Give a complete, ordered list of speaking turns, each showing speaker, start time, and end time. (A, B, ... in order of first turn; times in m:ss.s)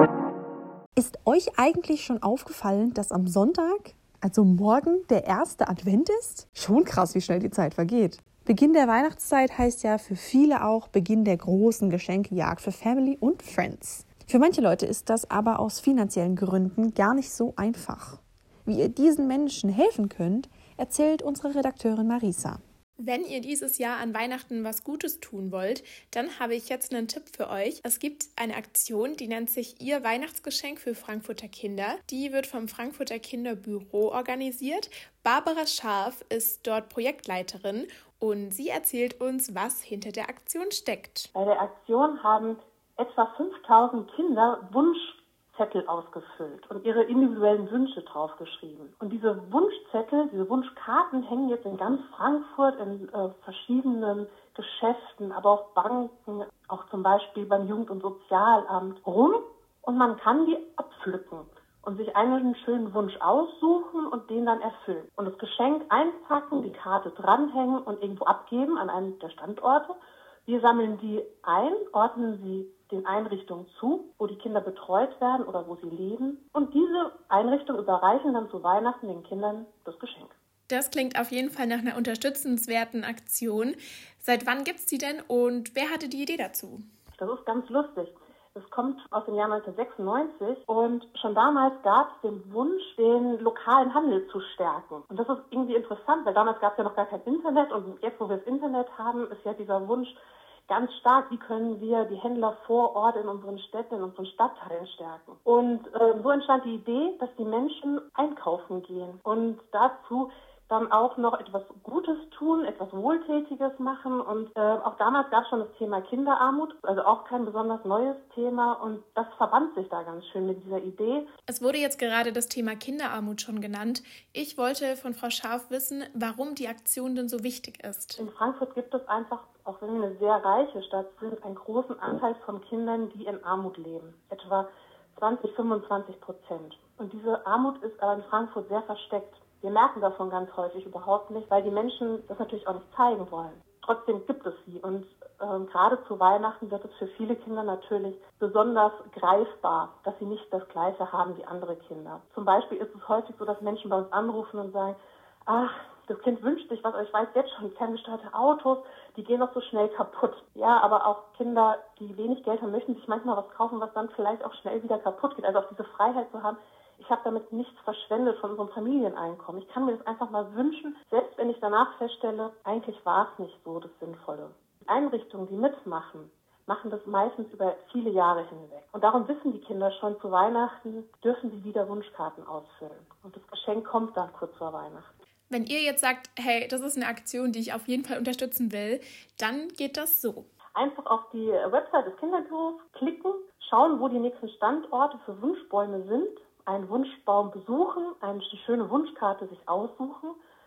0:01.0-0:22.6 A
0:23.0-0:41.3 B
0:41.4-1:09.9 C
1:10.5-1:20.3 C
1:20.7-1:26.8 B
1:27.2-1:40.2 C
1:40.7-2:01.2 C
2:01.5-2:08.2 B
2:08.2-2:35.0 C
2:35.5-3:05.1 C
3:05.5-3:10.5 B
3:10.7-3:20.4 C